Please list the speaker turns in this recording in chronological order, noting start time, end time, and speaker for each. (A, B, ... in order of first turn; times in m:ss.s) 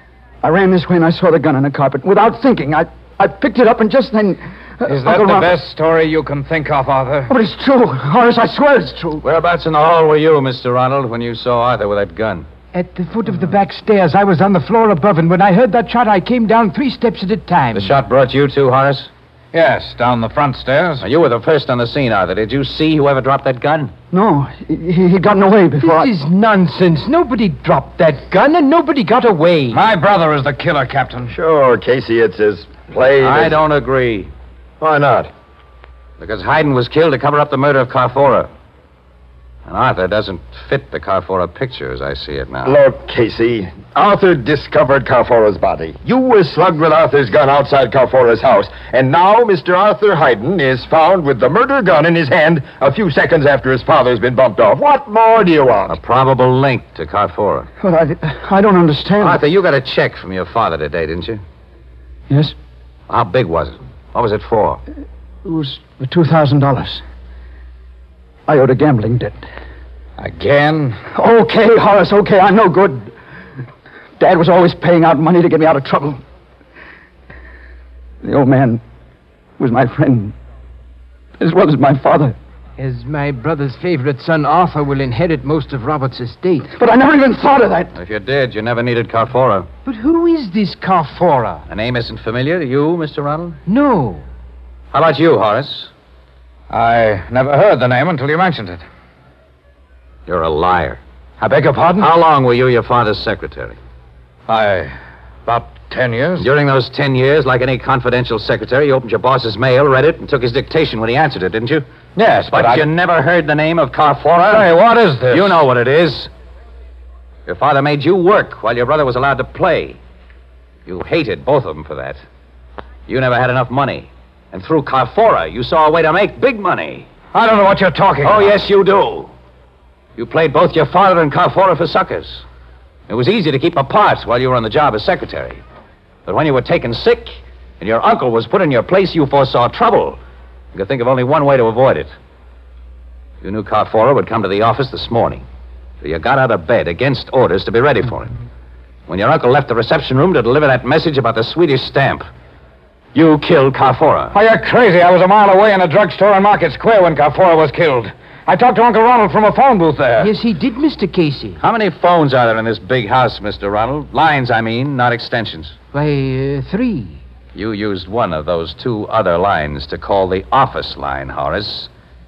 0:00.4-0:05.6 A
0:04.9-0:07.3 B
0:07.3-0:09.2 A
0:09.2-0:12.5 C
0:12.7-0:17.9 D
0:17.7-0:19.1 C
0:19.5-0:21.1 B
0:21.0-0:23.9 C
0:24.1-0:26.1 A
0:25.8-0:29.8 D
0:29.7-0:31.3 B
0:31.3-0:33.6 E
0:33.2-0:34.3 C
0:34.8-0:35.3 E
0:36.2-0:38.5 C
0:39.7-0:42.8 C
0:42.6-0:56.0 E
0:55.9-0:57.7 C
0:57.8-0:59.4 A
0:59.2-1:01.4 C
1:02.3-1:02.6 A
1:03.1-1:04.8 C
1:05.4-1:07.0 A
1:08.5-1:09.4 A
1:10.2-1:11.0 B
1:11.1-1:13.1 A
1:14.2-1:16.2 A
1:18.2-1:18.8 A
1:19.6-1:20.4 A
1:21.4-1:22.4 A
1:22.8-1:26.7 D
1:26.7-1:27.9 A
1:28.0-1:29.7 C
1:29.9-1:31.6 D
1:31.7-1:33.6 C
1:33.7-1:34.2 D
1:34.9-1:35.9 C
1:36.7-1:38.8 B
1:40.3-1:41.0 C
1:41.4-1:42.1 B
1:42.0-1:43.8 C
1:44.5-1:46.5 B
1:46.4-1:51.8 C
1:52.2-1:52.8 B
1:52.5-1:54.8 C
1:54.5-1:55.6 B
1:55.3-1:56.3 C
1:57.5-2:00.0 C
2:00.9-2:02.2 C
2:03.1-2:07.1 C
2:07.3-2:08.6 B
2:08.2-2:09.3 C
2:10.2-2:12.4 C
2:13.1-2:15.6 C
2:16.3-2:20.2 C
2:20.8-2:22.1 C
2:23.4-2:25.4 C
2:26.0-2:28.3 C
2:29.1-2:32.3 C
2:33.1-2:34.3 C
2:34.3-2:40.3 B
2:40.2-2:41.6 D
2:41.6-2:45.8 C
2:45.9-2:47.2 D
2:47.6-2:51.9 C